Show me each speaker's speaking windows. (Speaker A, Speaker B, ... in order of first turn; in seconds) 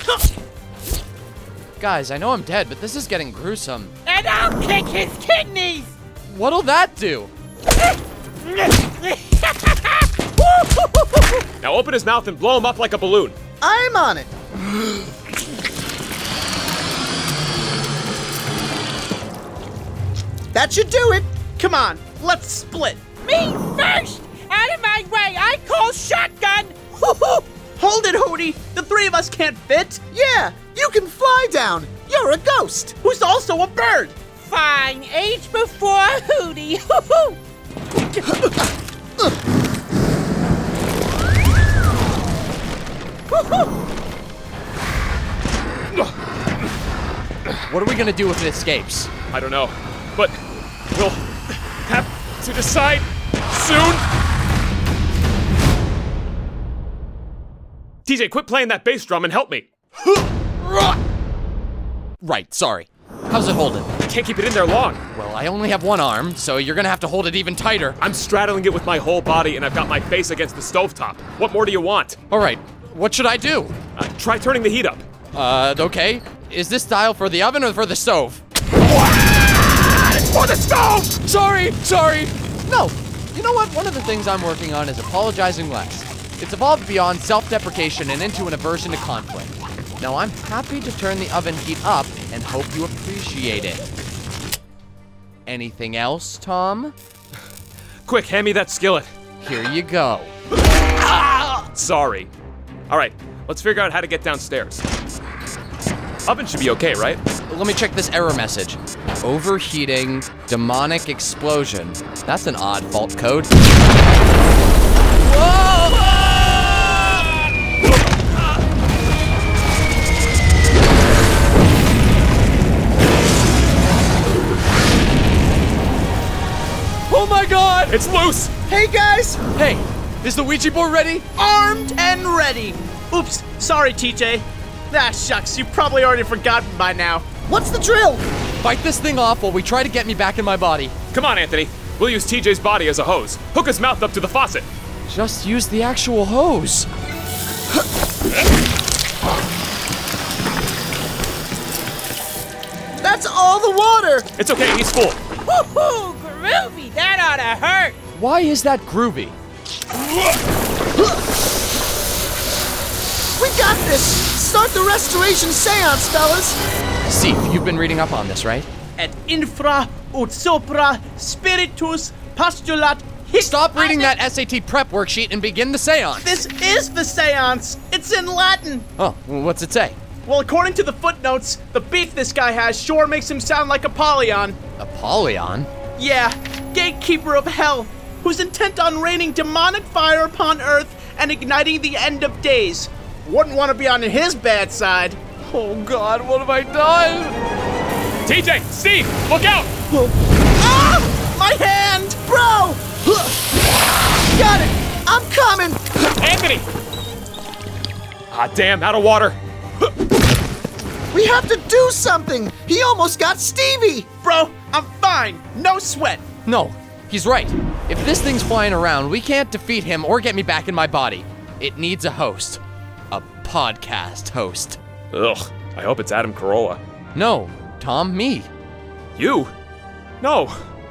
Speaker A: 1.8-3.9, 6.3-7.3, 47.7-49.1, 60.6-60.9, 62.2-63.9, 65.1-68.0, 72.3-73.7, 75.3-93.8, 95.5-96.9, 99.4-100.3, 107.5-113.5, 115.2-117.2, 127.1-128.0, 129.6-131.3, 138.6-140.9, 145.1-146.9, 158.1-159.3, 167.1-168.7, 173.4-176.4, 179.0-179.9, 184.8-185.7, 195.4-197.4, 216.4-224.8, 227.1-228.5
Speaker B: 4.0-5.9, 8.4-11.2, 23.2-27.4, 34.4-37.4, 43.3-43.7, 155.5-157.9
Speaker C: 11.6-13.3, 49.3-50.4, 50.9-51.2, 51.8-54.0, 58.0-59.7, 64.0-65.0, 68.0-72.2, 74.0-75.0, 98.1-99.1, 101.0-102.3, 102.9-104.8, 106.2-107.2, 127.9-128.5, 141.1-144.7, 154.4-155.2, 198.2-199.7, 206.2-206.7, 208.3-209.4, 225.1-226.8, 229.2-229.5, 230.2-230.6
Speaker D: 13.6-14.3, 20.5-21.3, 30.1-32.9, 128.7-129.4, 137.4-138.2, 153.0-154.3, 163.3-166.6, 202.2-203.5, 204.3-206.1, 211.1-214.1
Speaker E: 21.6-23.0, 27.8-30.0, 33.0-34.1, 131.4-137.2, 169.0-174.2, 176.2-178.9, 180.2-184.6, 186.0-195.2, 200.6-202.2, 214.2-216.2